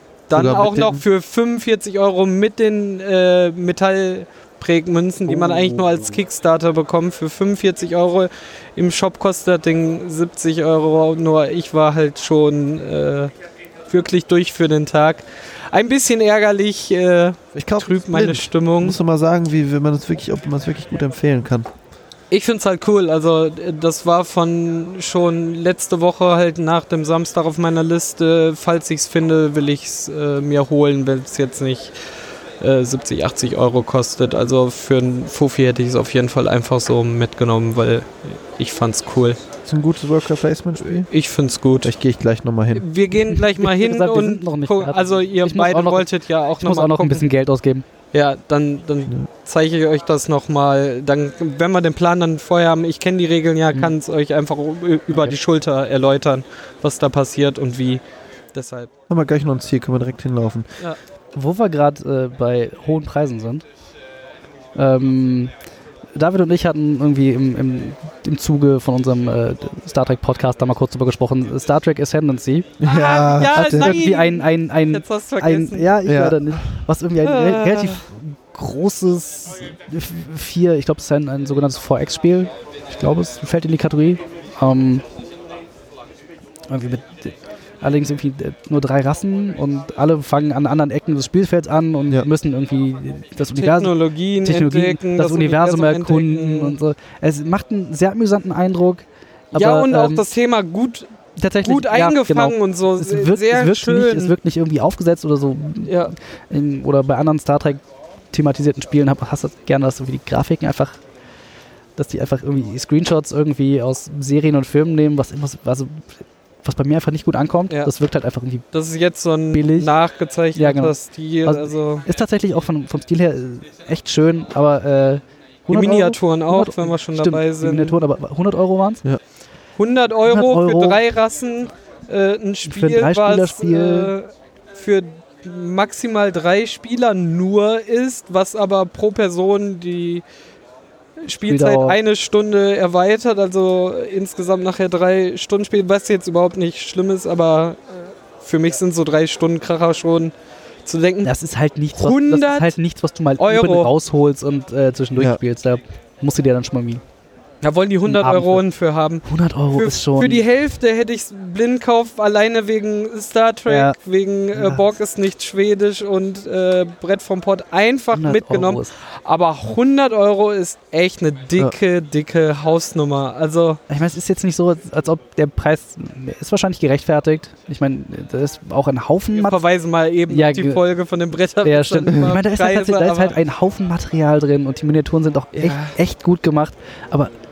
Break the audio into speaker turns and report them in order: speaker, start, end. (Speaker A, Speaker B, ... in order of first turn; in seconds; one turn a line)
Speaker A: 0.3-13.3
Speaker B: 0.3-1.0
Speaker C: 5.3-6.1
Speaker A: 13.9-19.0
Speaker B: 17.5-21.7
Speaker A: 22.3-31.9
Speaker A: 32.6-39.4
Speaker B: 39.6-41.1
Speaker A: 41.1-41.9
Speaker B: 41.8-42.9
Speaker A: 42.7-47.2
Speaker C: 43.2-46.1
Speaker C: 46.6-47.8
Speaker A: 48.1-58.0
Speaker C: 55.1-55.4
Speaker A: 58.5-58.9
Speaker B: 59.1-60.7
Speaker C: 61.4-63.6
Speaker C: 64.7-65.5
Speaker C: 66.2-72.7
Speaker B: 72.8-74.0
Speaker A: 72.8-75.9
Speaker C: 73.5-85.0
Speaker B: 76.0-76.4
Speaker A: 77.2-78.0
Speaker C: 86.7-100.2
Speaker A: 93.5-96.8
Speaker A: 99.5-101.1
Speaker C: 101.3-111.0
Speaker A: 101.6-104.3
Speaker A: 105.8-106.1
Speaker C: 112.0-118.6
Speaker A: 118.7-122.0
Speaker C: 119.5-119.9
Speaker C: 120.5-129.0
Speaker A: 125.7-128.0
Speaker A: 129.8-140.2
Speaker C: 130.2-131.0
Speaker C: 132.6-134.1
Speaker A: 141.2-150.3
Speaker C: 141.5-142.0
Speaker A: 150.8-151.3
Speaker C: 151.2-157.0
Speaker A: 151.9-152.7
Speaker A: 153.4-153.9
Speaker A: 157.6-173.8
Speaker C: 158.1-158.6
Speaker C: 159.2-160.4
Speaker C: 163.7-164.0
Speaker C: 164.5-164.8
Speaker C: 168.1-168.9
Speaker C: 173.9-179.6
Speaker A: 179.3-183.4
Speaker C: 180.3-180.8
Speaker C: 181.6-187.3
Speaker A: 185.6-186.0